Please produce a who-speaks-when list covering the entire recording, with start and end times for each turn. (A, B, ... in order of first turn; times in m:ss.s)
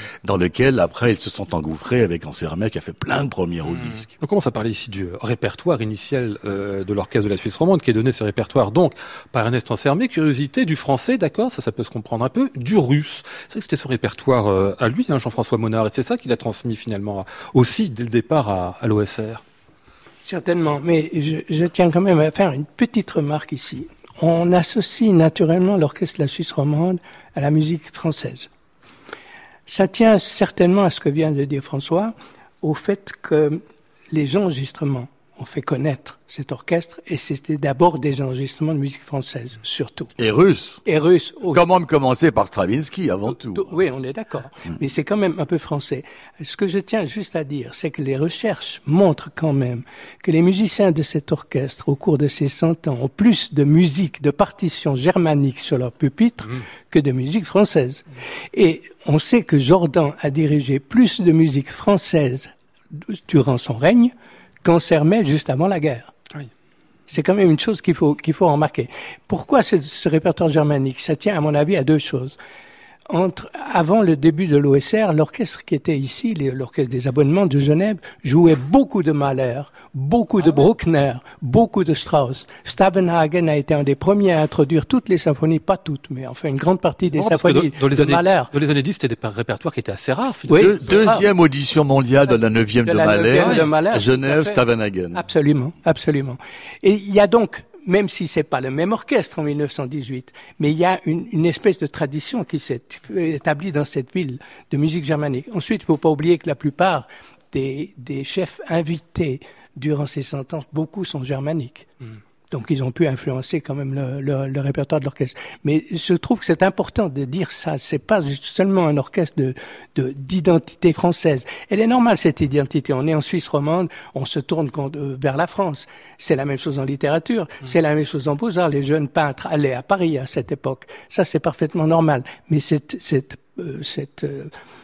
0:00.2-0:04.1 A
0:03.8-0:19.4 B
0:20.2-0:28.5 C
0:29.7-0:40.1 C
0:40.2-0:40.8 A
0:40.8-0:41.6 C
0:41.5-0:43.7 A
0:43.3-1:04.1 C
1:04.6-1:06.1 C
1:07.1-1:12.4 C
1:13.1-1:28.5 C
1:27.1-1:31.0 B
1:30.5-1:31.2 C
1:30.5-1:35.2 A
1:32.8-1:34.6 C
1:35.1-1:51.9 C
1:52.5-2:14.5 C